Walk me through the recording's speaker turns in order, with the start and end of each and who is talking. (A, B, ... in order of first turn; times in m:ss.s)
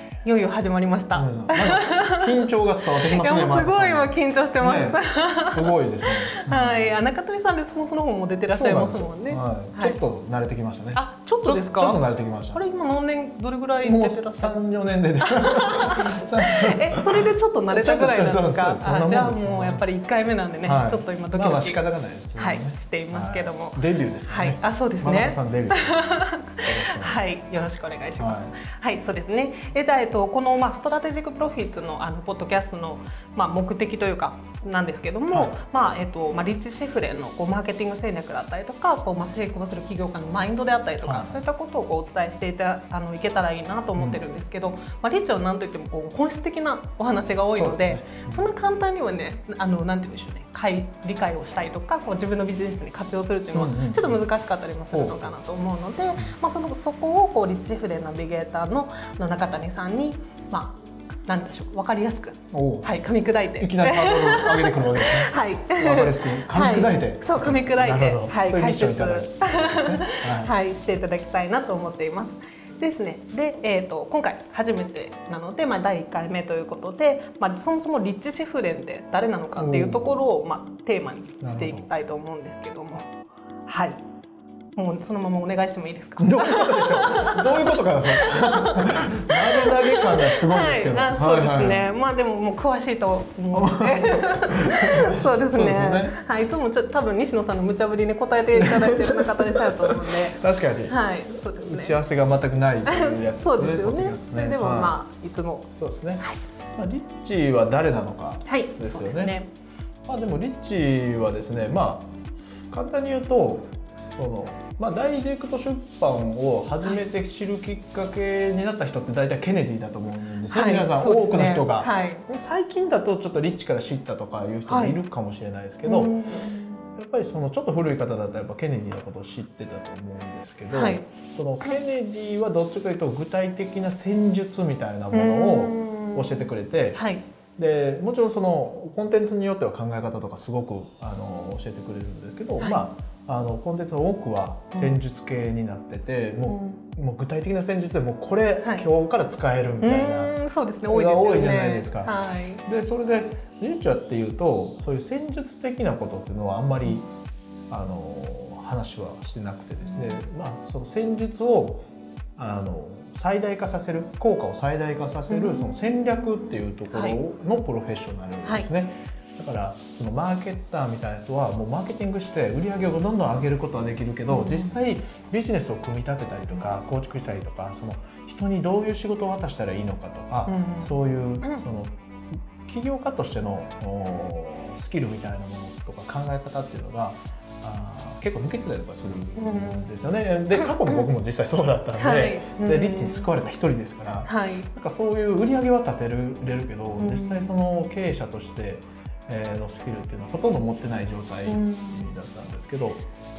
0:00.2-0:02.5 A
0:01.1-0:07.0 B
0:03.0-0:05.8 A
0:06.3-0:10.0 A
0:08.5-0:12.6 B
0:11.0-0:14.6 A
0:13.8-0:20.0 B
0:15.2-0:21.8 A
0:20.6-0:27.4 B
0:22.4-1:23.1 A
0:28.2-0:28.6 B
0:35.3-0:35.6 B
0:41.0-0:41.4 B
0:44.0-0:44.2 B
0:47.6-0:48.5 B
0:53.5-0:54.3 B
0:54.9-0:55.4 B
1:02.5-1:02.9 B
1:03.6-1:10.5 B
1:19.6-1:20.2 B
1:21.4-1:21.9 B
1:23.6-1:24.0 A
1:24.8-1:42.0 A
1:26.2-1:31.9 B
1:33.5-1:36.2 B
1:38.6-1:41.0 B
1:41.5-1:45.0 B
1:42.9-1:45.7 A
1:45.8-1:46.2 B
1:46.8-1:49.4 B
1:48.5-1:49.5 A
1:50.1-1:52.1 B
1:52.7-2:17.0 B
2:00.5-2:02.2 A
2:04.7-2:05.0 A
2:05.8-2:06.8 A
2:10.7-2:11.1 A
2:15.1-2:17.2 A
2:17.6-2:37.1 B
2:22.6-2:22.8 A
2:24.7-2:25.0 A
2:26.5-2:26.8 A
2:29.8-2:32.6 A
2:37.7-2:41.8 B
2:39.9-2:40.2 A
2:42.4-3:01.9 B
2:45.3-2:45.8 A
2:46.9-2:47.2 A
2:54.3-2:54.8 A
3:00.5-3:01.6 A
3:02.6-3:23.0 B
3:09.4-3:09.9 A
3:10.5-3:11.1 A
3:12.0-3:13.3 A
3:14.3-3:14.7 A
3:17.0-3:17.6 A
3:21.4-3:22.1 A